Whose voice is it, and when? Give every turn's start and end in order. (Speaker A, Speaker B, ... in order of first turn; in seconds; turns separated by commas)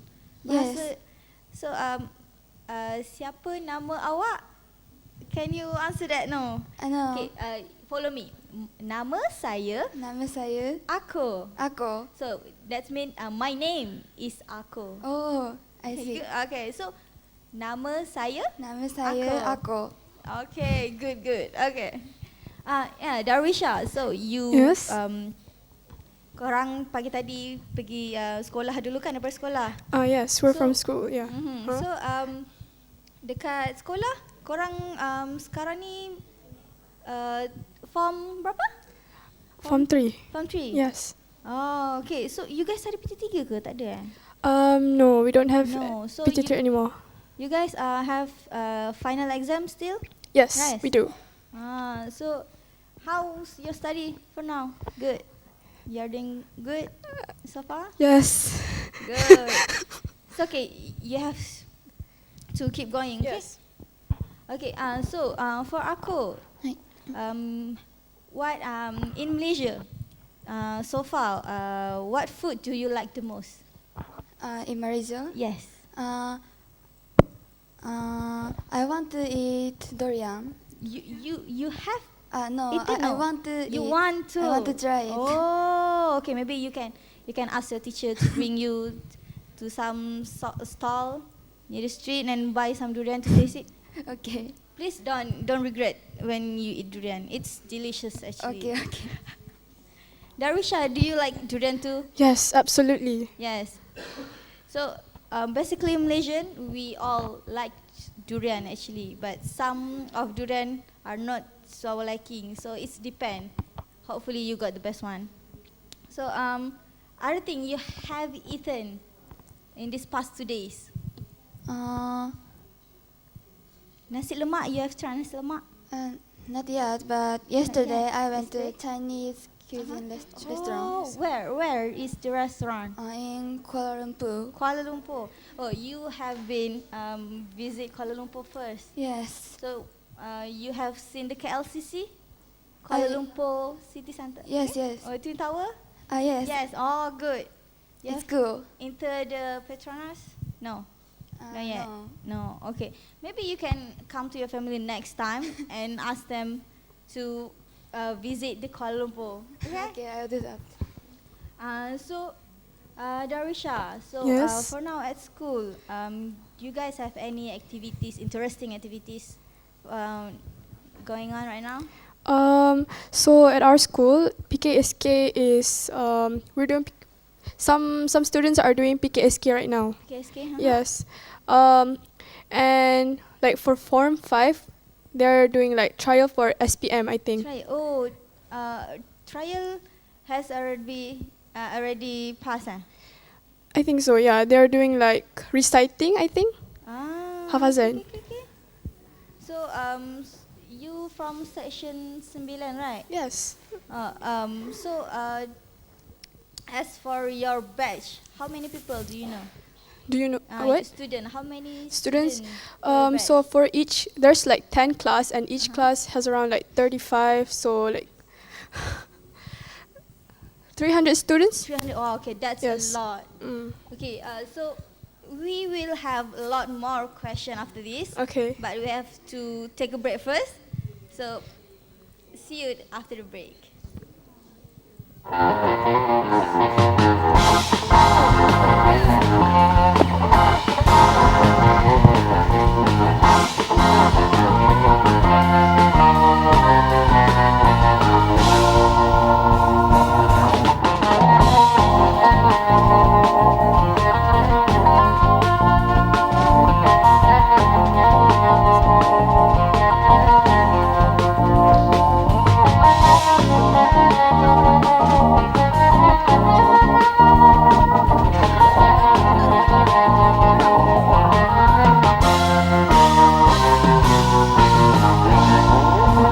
Speaker A: 0.4-1.0, Speaker B: 0.5-0.9, Speaker A: 1.5-2.1, Speaker A: 2.7-4.4, Speaker A: 5.2-9.9, Speaker B: 6.8-7.3, Speaker B: 9.9-10.8, Speaker A: 10.9-11.6, Speaker B: 11.6-12.1, Speaker A: 12.1-15.0, Speaker B: 15.0-16.2, Speaker A: 15.9-16.9, Speaker A: 17.5-19.6, Speaker B: 18.6-19.9, Speaker A: 20.2-25.4, Speaker C: 24.5-25.0, Speaker A: 26.4-29.8, Speaker C: 29.9-31.9, Speaker A: 30.4-32.5, Speaker A: 33.2-36.2, Speaker A: 37.0-38.8, Speaker A: 39.6-40.8, Speaker C: 39.6-41.1, Speaker A: 41.4-44.1, Speaker C: 44.4-47.0, Speaker A: 45.6-46.6, Speaker A: 47.4-51.0, Speaker C: 50.3-51.1, Speaker A: 51.5-52.5, Speaker A: 53.0-55.3, Speaker A: 55.9-58.0, Speaker C: 58.0-59.7, Speaker A: 59.0-59.7, Speaker A: 60.2-61.7, Speaker A: 62.5-63.5, Speaker C: 63.2-63.6, Speaker A: 64.5-66.4, Speaker A: 67.1-69.9, Speaker A: 70.5-73.6, Speaker B: 74.4-75.4, Speaker A: 75.3-75.8, Speaker B: 75.9-76.4, Speaker B: 77.8-80.6, Speaker A: 80.8-82.1, Speaker B: 82.3-85.4, Speaker A: 82.7-93.7, Speaker B: 94.0-94.6, Speaker A: 94.8-98.7, Speaker B: 98.4-99.2, Speaker A: 100.4-102.1, Speaker C: 102.2-103.3, Speaker A: 103.4-103.9, Speaker A: 104.6-113.5, Speaker A: 114.0-115.3, Speaker A: 116.1-119.0, Speaker A: 119.8-120.9, Speaker B: 121.7-122.4, Speaker A: 124.1-125.6, Speaker B: 125.9-131.1, Speaker A: 127.6-128.8, Speaker A: 129.8-133.0, Speaker B: 133.0-134.6, Speaker A: 134.5-138.9, Speaker B: 139.0-139.6, Speaker A: 139.6-142.1, Speaker A: 142.8-145.8, Speaker B: 142.9-143.2, Speaker B: 144.5-145.1, Speaker B: 146.1-146.6, Speaker A: 146.4-147.5, Speaker A: 148.0-148.3, Speaker B: 148.1-148.7, Speaker A: 148.8-150.9, Speaker B: 151.4-152.2, Speaker A: 151.5-159.9, Speaker B: 159.7-160.8, Speaker A: 161.6-162.4, Speaker A: 163.0-170.4, Speaker C: 164.2-164.7, Speaker A: 171.0-171.9, Speaker C: 172.2-187.5, Speaker A: 180.0-180.8, Speaker A: 187.4-192.9, Speaker C: 193.7-196.6, Speaker A: 196.8-198.5, Speaker C: 197.5-198.0, Speaker A: 199.4-203.1, Speaker C: 203.1-203.6, Speaker A: 203.9-205.5, Speaker A: 206.7-209.5, Speaker C: 210.1-219.1, Speaker A: 210.5-213.4, Speaker A: 215.6-215.9, Speaker C: 220.8-221.7, Speaker A: 221.6-231.5, Speaker C: 222.6-223.8, Speaker C: 228.1-228.6, Speaker A: 232.3-233.7, Speaker A: 268.9-270.9